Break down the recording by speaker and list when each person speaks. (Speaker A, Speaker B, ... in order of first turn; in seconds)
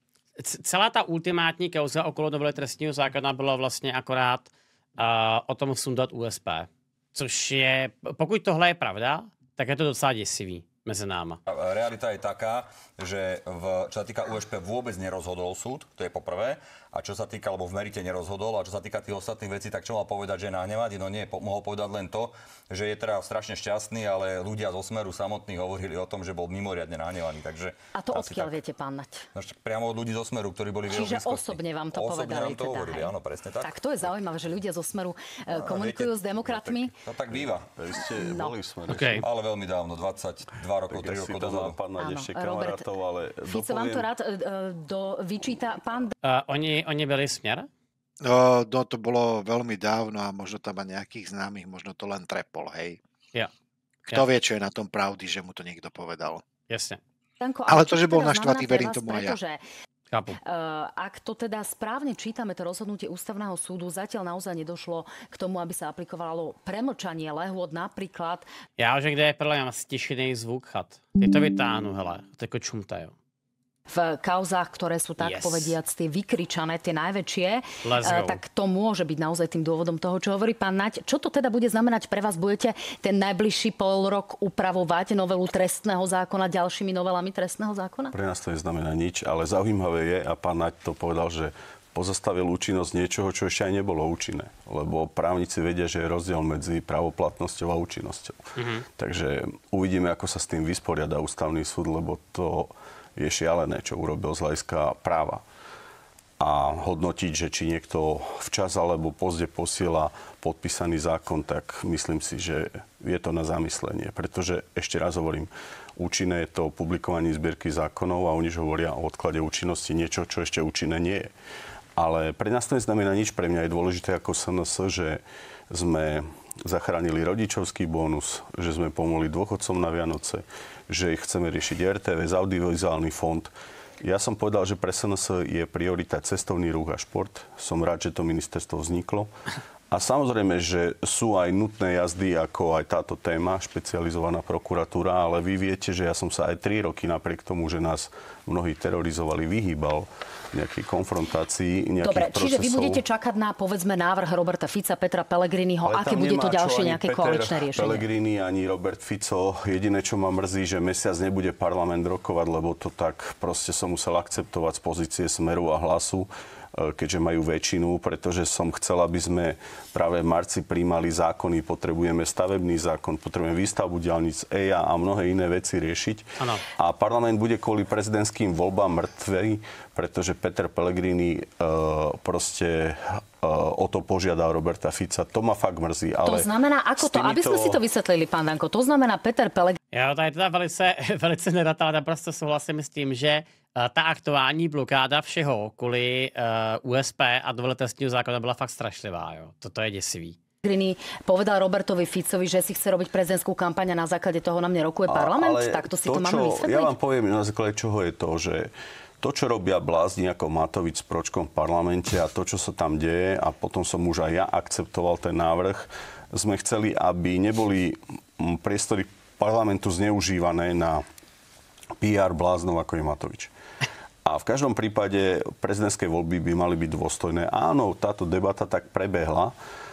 Speaker A: 0.4-11.4, 38.9-39.2, 46.2-47.7, 56.7-57.0, 60.1-60.4, 68.8-73.1, 75.2-75.8, 77.8-78.4, 98.5-98.8, 189.9-200.4
Speaker B: 11.5-28.5, 29.3-33.7, 35.5-37.7, 39.2-41.8
Speaker C: 27.9-29.2, 30.9-33.1, 33.6-36.9, 38.0-38.5, 42.0-42.9, 43.5-46.1, 57.4-59.6, 60.4-68.5, 73.9-88.1, 152.0-158.0, 186.2-189.8, 200.6-206.9
Speaker D: 37.8-39.2, 40.9-44.1, 88.1-98.4, 99.0-105.4, 106.4-121.3, 122.0-133.5, 134.0-139.3, 139.9-153.0, 155.8-176.2, 176.8-187.8, 205.1-221.0, 222.0-223.5, 224.2-229.5
Speaker E: 48.2-53.0, 54.0-56.4, 57.7-59.4